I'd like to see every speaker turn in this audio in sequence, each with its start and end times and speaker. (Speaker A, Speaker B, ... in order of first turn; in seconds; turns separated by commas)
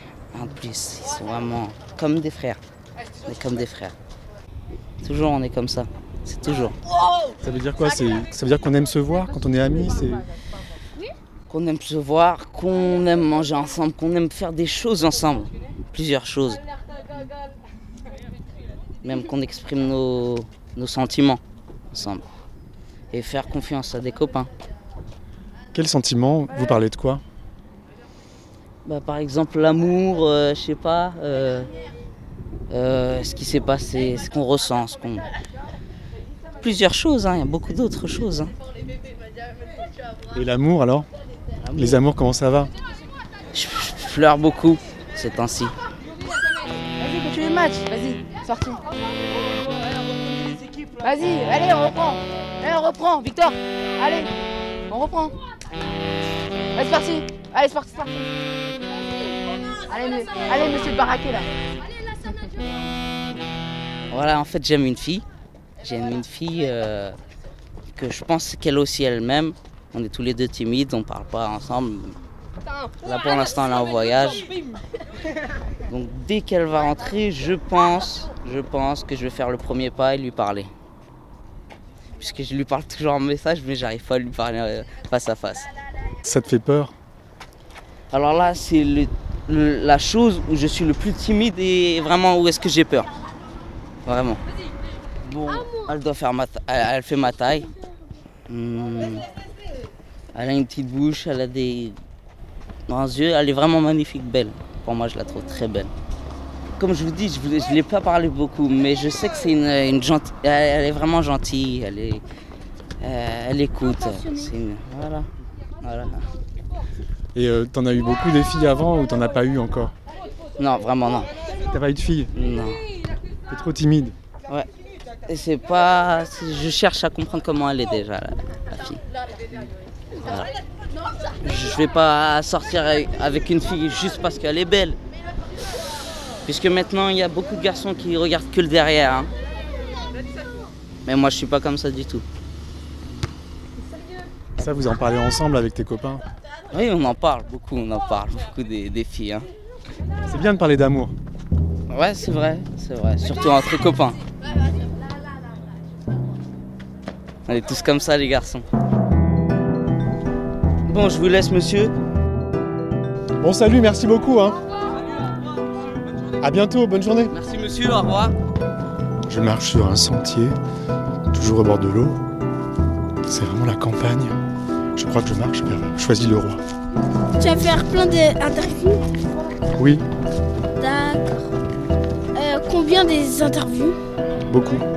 Speaker A: 0.3-2.6, Speaker A: 3.2-3.9, Speaker A: 5.0-6.8, Speaker B: 7.4-10.2, Speaker A: 11.5-16.6, Speaker A: 19.0-22.2, Speaker A: 23.1-24.5, Speaker B: 25.7-27.2, Speaker A: 28.8-31.7, Speaker A: 32.7-35.3, Speaker A: 36.6-38.5, Speaker B: 40.3-41.1, Speaker A: 41.6-42.0, Speaker B: 41.8-42.7, Speaker A: 43.5-45.7, Speaker C: 47.0-48.8, Speaker C: 51.0-54.3, Speaker C: 54.9-55.3, Speaker C: 56.7-58.3, Speaker C: 59.9-61.5, Speaker A: 64.1-65.2, Speaker A: 65.8-67.2, Speaker A: 67.9-72.2, Speaker A: 73.0-74.5, Speaker A: 75.9-80.7, Speaker A: 82.2-85.7, Speaker B: 86.2-86.9, Speaker A: 88.1-93.1, Speaker A: 94.0-94.4, Speaker A: 95.2-97.7, Speaker A: 98.5-99.2, Speaker A: 100.3-102.0, Speaker A: 102.9-105.9, Speaker A: 106.8-112.2, Speaker A: 113.0-115.3, Speaker A: 115.8-116.3, Speaker B: 117.3-119.9, Speaker A: 120.6-121.3, Speaker B: 121.7-122.3, Speaker A: 122.3-122.8, Speaker B: 123.5-124.1, Speaker A: 125.3-129.0, Speaker A: 130.2-130.5, Speaker A: 131.4-135.0, Speaker A: 136.4-139.3, Speaker A: 141.1-142.2, Speaker B: 144.6-146.2, Speaker A: 146.7-149.5, Speaker B: 150.2-151.1, Speaker A: 151.9-154.2, Speaker A: 157.5-158.6, Speaker A: 160.8-161.9, Speaker B: 163.4-164.6, Speaker B: 166.4-167.3, Speaker A: 167.3-168.3, Speaker B: 169.2-170.6, Speaker B: 171.3-172.2, Speaker B: 173.3-174.3, Speaker B: 174.9-176.6, Speaker D: 177.4-179.1, Speaker B: 179.7-180.0, Speaker D: 180.8-181.5, Speaker D: 182.3-184.0, Speaker B: 184.4-184.8